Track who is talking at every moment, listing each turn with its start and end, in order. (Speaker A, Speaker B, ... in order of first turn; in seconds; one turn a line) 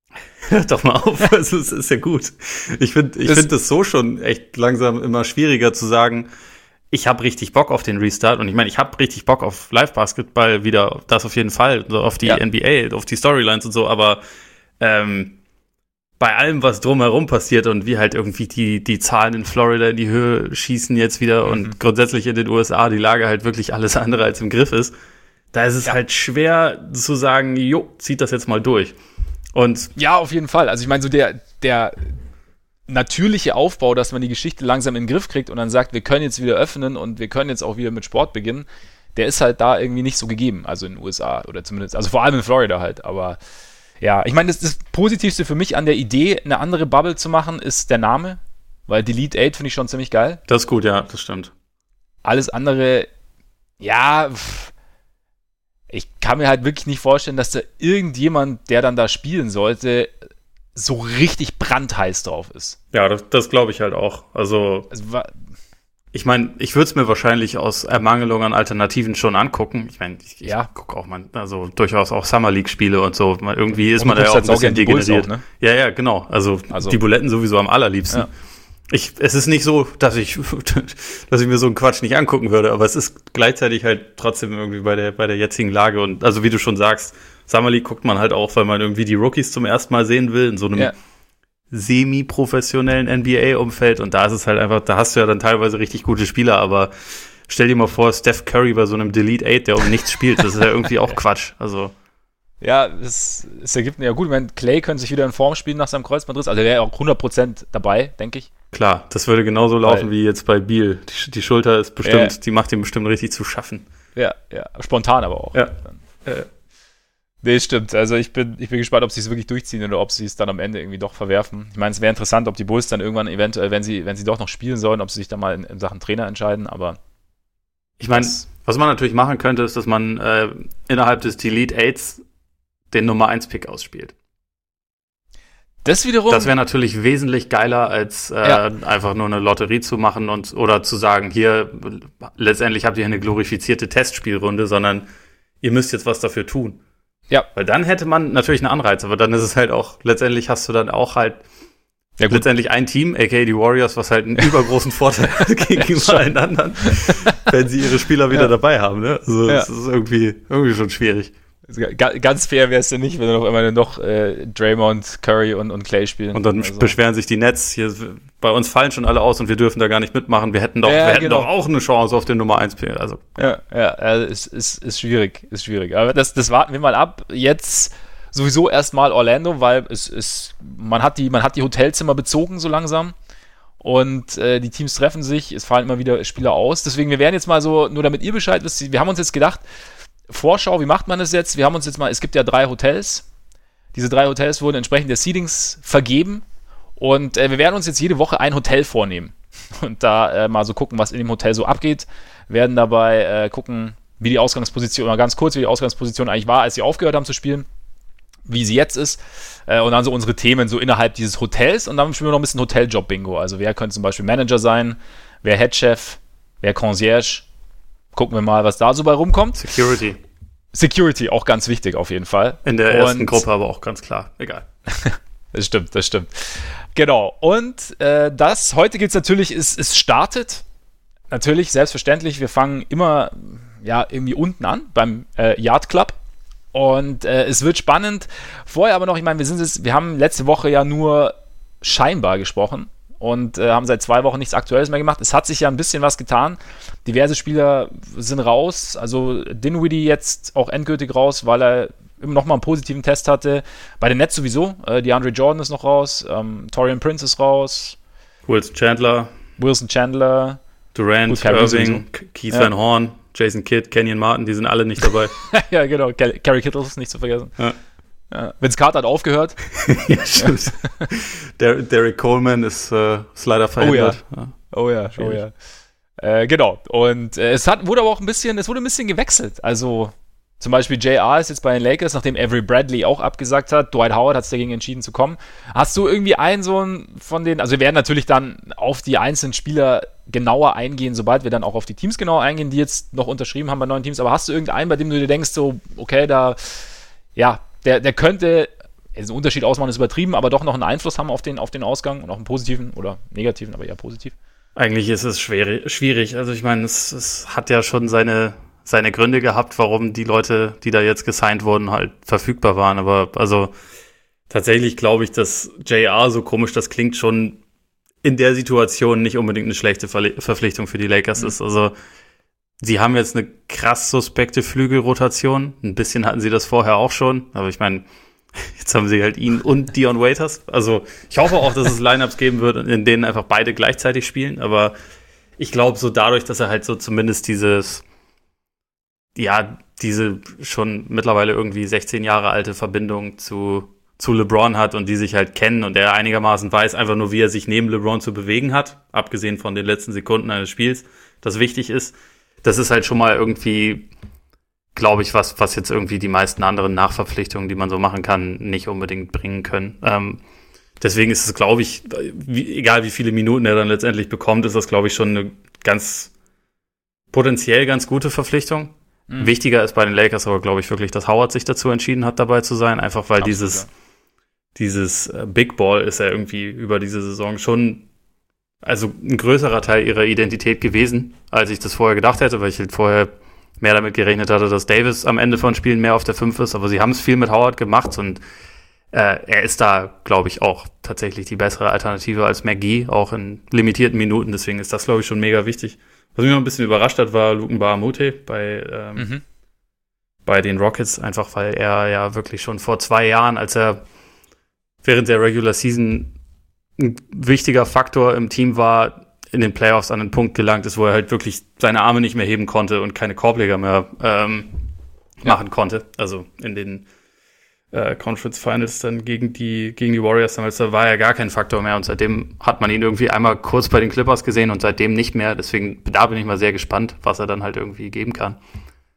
Speaker A: 0.4-6.3
Speaker B: 3.2-3.5
Speaker A: 6.9-14.2
Speaker A: 14.8-15.4
Speaker A: 16.2-24.9
Speaker B: 21.4-21.7
Speaker A: 25.5-28.9
Speaker A: 29.5-29.9
Speaker B: 29.9-32.1
Speaker B: 32.9-43.4
Speaker B: 44.0-50.4
Speaker A: 50.5-51.5
Speaker B: 52.2-53.1
Speaker B: 53.8-54.7
Speaker B: 55.9-60.1
Speaker B: 60.8-62.8
Speaker A: 62.9-64.9
Speaker B: 64.9-65.3
Speaker A: 66.1-78.3
Speaker B: 70.4-70.7
Speaker B: 73.9-75.4
Speaker B: 76.7-77.0
Speaker A: 78.9-90.9
Speaker A: 91.7-101.9
Speaker B: 102.6-108.5
Speaker A: 108.7-113.9
Speaker B: 112.0-112.3
Speaker B: 114.2-116.0
Speaker B: 117.4-127.0
Speaker A: 128.0-132.2
Speaker B: 128.1-128.4
Speaker A: 132.9-134.1
Speaker B: 135.8-136.5
Speaker A: 136.3-145.1
Speaker A: 145.6-146.8
Speaker A: 147.5-151.4
Speaker B: 152.2-152.4
Speaker A: 152.3-161.3
Speaker B: 155.7-156.2
Speaker B: 156.8-157.5
Speaker B: 161.7-166.9
Speaker A: 166.3-173.2
Speaker B: 170.8-171.5
Speaker B: 173.4-183.1
Speaker B: 183.8-189.6
Speaker B: 190.3-193.2
Speaker B: 193.9-196.4
Speaker B: 197.0-207.7
Speaker B: 208.5-217.5
Speaker B: 218.1-219.7
Speaker A: 219.6-220.2
Speaker B: 220.7-223.4
Speaker A: 222.6-224.6
Speaker B: 224.9-230.6
Speaker B: 231.3-236.2
Speaker B: 236.7-258.0
Speaker A: 258.4-259.3
Speaker B: 259.6-260.6
Speaker A: 260.9-265.3
Speaker B: 261.3-262.7
Speaker B: 265.4-267.5
Speaker B: 268.3-269.6
Speaker A: 269.8-274.5
Speaker B: 270.4-271.0
Speaker B: 273.8-274.2
Speaker B: 274.7-275.5
Speaker A: 275.1-275.4
Speaker B: 276.2-304.3
Speaker A: 304.8-313.7
Speaker A: 314.5-317.6
Speaker A: 318.2-321.9
Speaker A: 322.8-334.9
Speaker A: 335.6-338.0
Speaker A: 339.3-354.1
Speaker A: 354.9-360.4
Speaker A: 361.0-366.3
Speaker A: 367.3-373.8
Speaker B: 373.4-373.9
Speaker A: 374.8-378.1
Speaker A: 378.8-388.4
Speaker A: 389.1-399.3
Speaker B: 399.1-399.4
Speaker A: 400.4-404.0
Speaker A: 405.0-406.3
Speaker A: 407.0-414.8
Speaker A: 415.4-417.1
Speaker A: 417.9-428.6